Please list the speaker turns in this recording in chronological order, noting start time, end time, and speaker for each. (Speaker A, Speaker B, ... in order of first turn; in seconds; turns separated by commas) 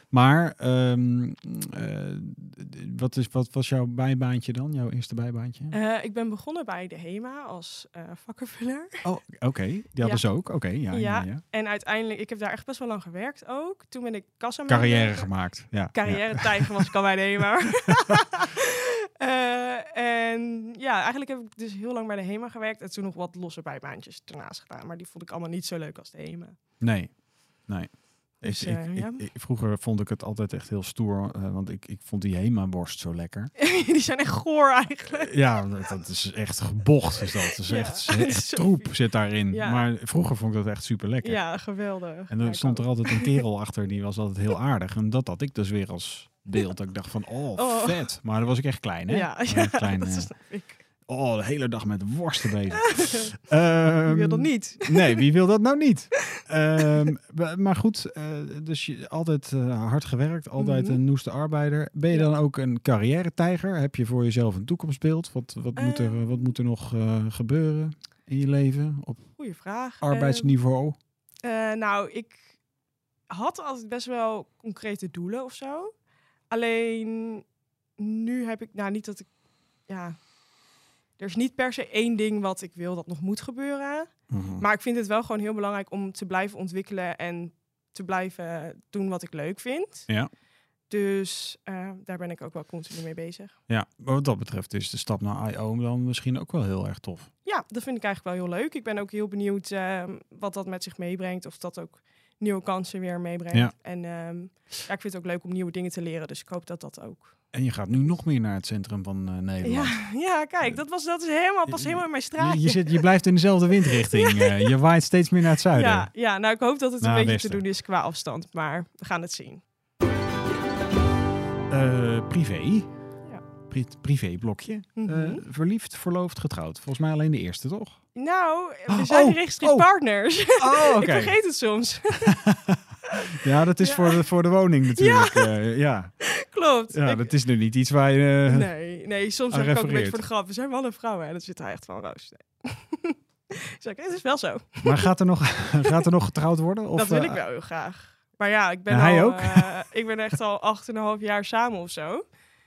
Speaker A: 0.1-5.7, Speaker B: 5.7-9.0, Speaker A: 9.0-11.4, Speaker B: 10.9-15.3, Speaker A: 14.7-16.9, Speaker B: 15.9-26.6, Speaker A: 17.9-18.1, Speaker A: 26.8-33.5, Speaker B: 28.4-29.2, Speaker B: 33.6-35.4, Speaker A: 35.1-41.4, Speaker B: 37.6-38.9, Speaker B: 39.5-39.8, Speaker B: 41.2-43.4, Speaker A: 42.3-50.3, Speaker B: 47.5-48.1, Speaker B: 49.1-50.8, Speaker A: 51.0-69.2, Speaker B: 52.8-53.3, Speaker B: 54.0-55.2, Speaker B: 56.3-57.0, Speaker B: 60.6-61.0, Speaker B: 65.8-66.5, Speaker B: 69.4-70.5, Speaker A: 70.0-71.0, Speaker B: 71.4-72.5, Speaker B: 73.3-75.9, Speaker B: 76.5-77.4, Speaker B: 78.0-79.3, Speaker B: 79.9-80.2, Speaker B: 81.2-90.1, Speaker A: 84.3-84.6, Speaker B: 90.9-93.5, Speaker A: 93.7-97.3, Speaker B: 97.4-107.3, Speaker A: 107.5-110.0, Speaker B: 109.6-113.0, Speaker A: 111.7-116.1, Speaker B: 113.8-114.7, Speaker B: 115.7-119.6, Speaker A: 117.0-117.6, Speaker A: 121.7-122.9, Speaker A: 123.7-128.0, Speaker B: 125.0-125.4, Speaker B: 128.1-132.4, Speaker A: 128.9-129.9, Speaker A: 130.6-131.4, Speaker A: 132.2-136.1, Speaker B: 133.1-134.2, Speaker B: 134.9-135.5, Speaker B: 136.2-137.3, Speaker A: 136.9-138.7, Speaker B: 138.5-145.1, Speaker A: 139.5-140.2, Speaker A: 144.8-147.4, Speaker B: 146.9-152.2, Speaker A: 148.9-149.8